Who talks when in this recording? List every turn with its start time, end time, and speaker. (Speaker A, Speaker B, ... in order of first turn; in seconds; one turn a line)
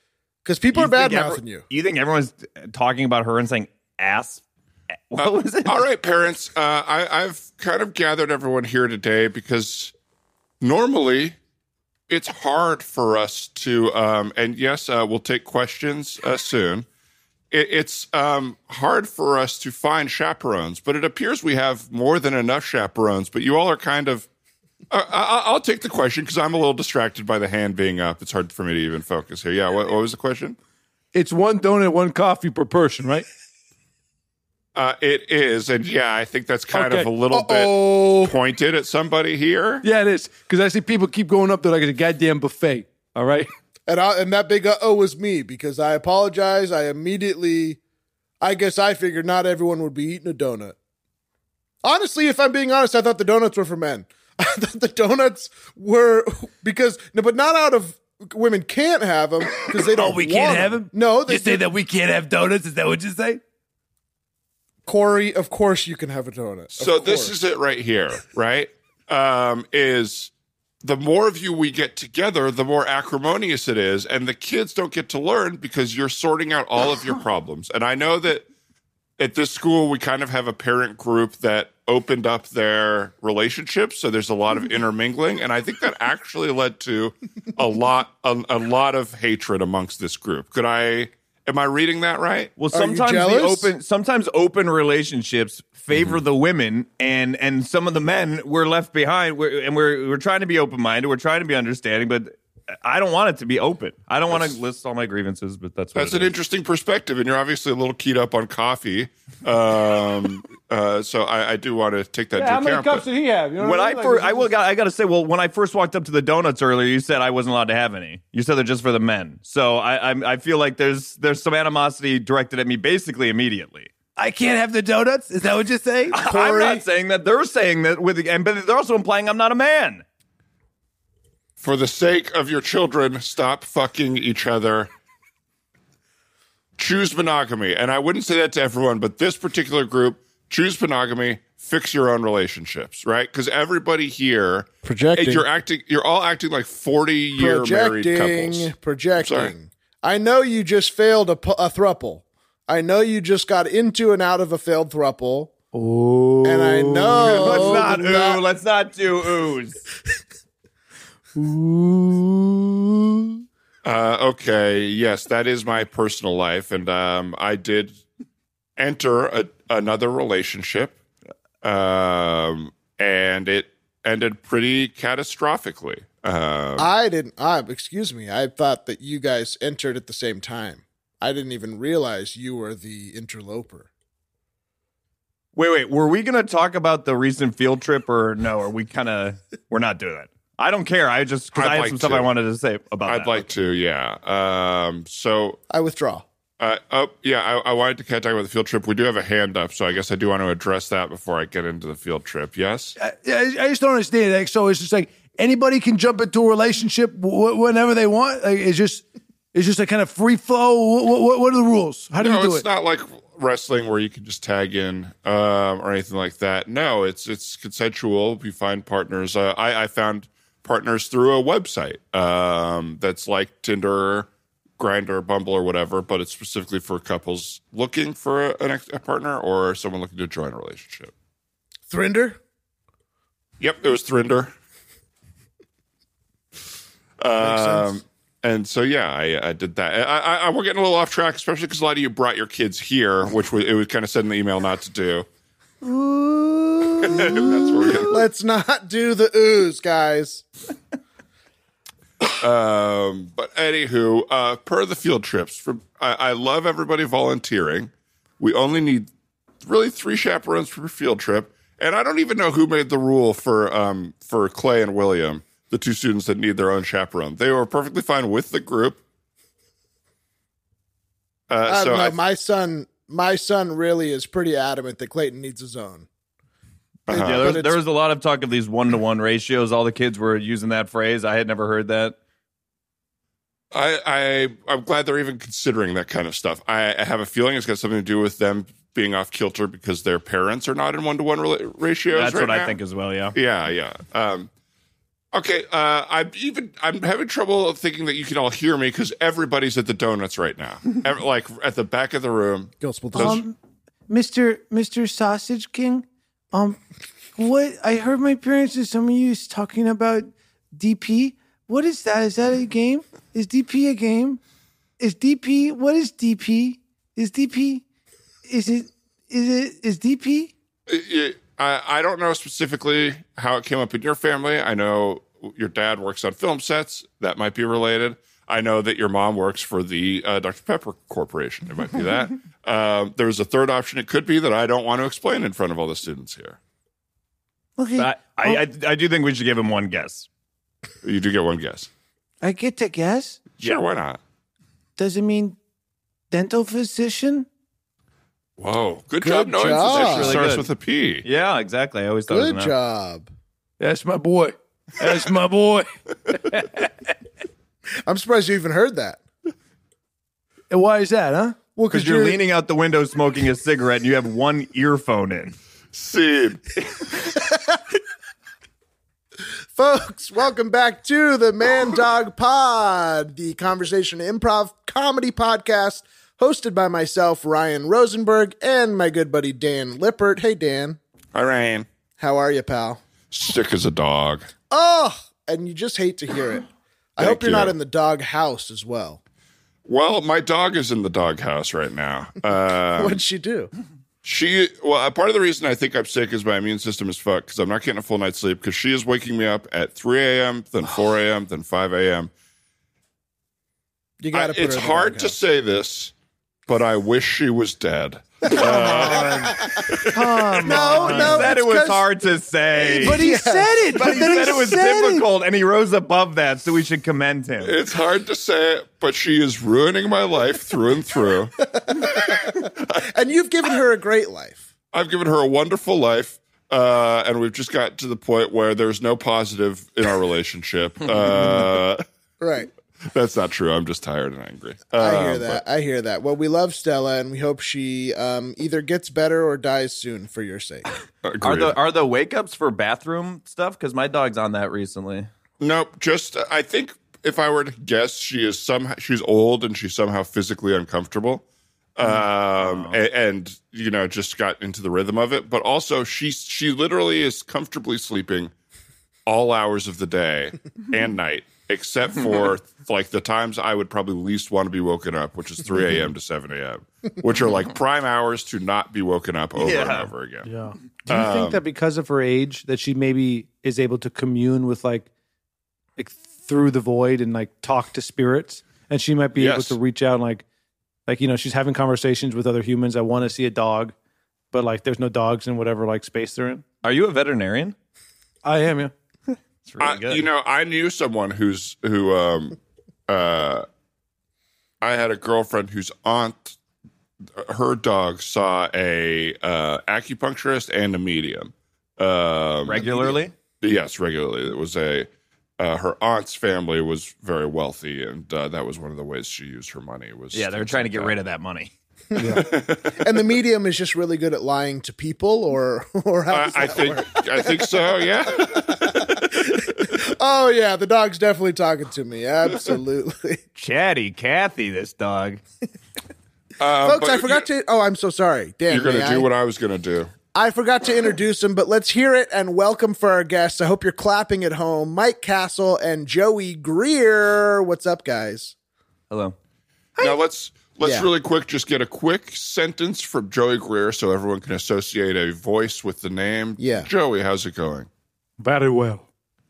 Speaker A: 0.4-1.6
Speaker B: 0.7-4.4
Speaker B: 5.1-5.8
Speaker C: 5.2-9.9
Speaker C: 10.6-11.3
Speaker C: 12.1-16.9
Speaker C: 17.5-24.3
Speaker C: 24.9-30.6
Speaker D: 31.1-33.2
Speaker C: 34.7-39.8
Speaker D: 36.7-37.1
Speaker A: 37.3-38.3
Speaker D: 39.8-43.5
Speaker A: 43.9-47.8
Speaker A: 48.4-50.8
Speaker A: 51.8-61.6
Speaker D: 59.8-63.4
Speaker A: 64.8-67.3
Speaker C: 66.8-70.3
Speaker C: 70.8-78.5
Speaker C: 79.2-92.5
Speaker B: 92.6-106.3
Speaker A: 92.7-93.7
Speaker C: 95.9-96.2
Speaker C: 104.3-104.5
Speaker C: 105.9-113.0
Speaker D: 112.3-114.5
Speaker B: 113.6-123.9
Speaker D: 124.2-126.2
Speaker B: 126.1-130.0
Speaker A: 126.2-126.8
Speaker C: 131.6-134.9
Speaker C: 136.8-149.5
Speaker A: 144.8-145.4
Speaker A: 147.4-155.5
Speaker D: 155.7-157.9
Speaker A: 156.4-158.4
Speaker B: 157.2-159.8
Speaker D: 161.3-163.4
Speaker C: 163.8-167.9
Speaker C: 168.8-171.0
Speaker C: 171.6-176.9
Speaker A: 176.8-183.9
Speaker B: 185.5-193.4
Speaker C: 191.5-192.3
Speaker C: 193.1-195.6
Speaker A: 195.7-196.2
Speaker C: 196.6-202.9
Speaker D: 203.0-212.6
Speaker C: 212.2-231.1
Speaker A: 231.9-232.4
Speaker C: 233.6-234.5
Speaker C: 237.2-245.2
Speaker A: 237.4-237.9
Speaker D: 245.8-248.1
Speaker C: 247.0-248.2
Speaker A: 247.9-250.4
Speaker C: 252.2-259.1
Speaker C: 259.6-269.0
Speaker C: 271.5-272.2
Speaker A: 271.7-276.1
Speaker C: 277.1-277.6
Speaker A: 277.1-277.8
Speaker B: 277.1-282.1
Speaker C: 283.7-292.8
Speaker B: 292.1-293.4
Speaker C: 293.3-294.5
Speaker C: 295.3-303.4
Speaker A: 302.8-303.4
Speaker D: 303.1-303.6
Speaker D: 304.1-306.8
Speaker D: 307.4-314.4
Speaker D: 315.0-317.8
Speaker D: 318.4-320.5
Speaker C: 320.9-336.6
Speaker D: 337.8-338.6
Speaker B: 338.0-340.3
Speaker C: 341.0-341.9
Speaker D: 342.4-343.4
Speaker C: 343.6-344.2
Speaker D: 345.0-345.6
Speaker D: 346.3-347.5
Speaker C: 348.6-351.2
Speaker A: 349.2-350.5
Speaker B: 349.8-350.7
Speaker B: 351.2-352.7
Speaker A: 352.3-353.3
Speaker D: 353.8-356.9
Speaker A: 358.1-359.2
Speaker D: 360.7-361.6
Speaker A: 361.8-362.4
Speaker B: 361.9-365.6
Speaker C: 365.9-367.1
Speaker A: 369.8-381.0
Speaker C: 381.3-381.9
Speaker A: 382.2-383.0
Speaker C: 383.3-384.5
Speaker A: 384.7-389.2
Speaker C: 387.2-387.8
Speaker C: 389.9-393.2
Speaker A: 392.9-393.7
Speaker C: 394.2-402.3
Speaker A: 404.2-405.4
Speaker C: 404.3-406.1
Speaker C: 406.7-410.8
Speaker A: 408.5-410.0
Speaker D: 408.5-411.5
Speaker A: 410.6-412.1
Speaker B: 410.8-413.3
Speaker A: 412.8-414.6
Speaker D: 413.0-415.2
Speaker B: 413.9-417.8
Speaker C: 417.6-422.2
Speaker A: 421.8-424.6
Speaker C: 424.9-432.0
Speaker A: 432.4-432.7
Speaker C: 433.0-435.6
Speaker A: 435.0-440.9
Speaker C: 441.2-441.8
Speaker B: 441.4-445.3
Speaker C: 445.6-451.4
Speaker C: 451.9-458.5
Speaker B: 452.6-453.0
Speaker C: 459.2-470.5
Speaker B: 469.6-470.1
Speaker D: 470.4-475.1
Speaker C: 471.1-471.6
Speaker D: 476.0-480.4
Speaker C: 479.4-479.8
Speaker D: 481.1-483.9
Speaker D: 484.5-486.6
Speaker B: 486.8-487.7
Speaker D: 488.4-488.9
Speaker B: 489.6-490.2
Speaker C: 489.8-492.6
Speaker C: 493.1-493.6
Speaker C: 494.8-496.6
Speaker C: 497.4-502.8
Speaker B: 502.6-503.3
Speaker A: 502.8-503.2
Speaker C: 503.6-511.1
Speaker B: 510.3-511.7
Speaker A: 512.1-523.4
Speaker D: 512.1-512.4
Speaker C: 512.2-513.2
Speaker C: 516.3-519.9
Speaker B: 523.5-525.4
Speaker C: 526.6-527.5
Speaker A: 526.8-529.3
Speaker C: 528.7-530.1
Speaker A: 530.3-538.5
Speaker B: 539.1-539.4
Speaker C: 540.0-547.9
Speaker A: 540.8-541.1
Speaker A: 546.6-546.9
Speaker D: 548.4-549.0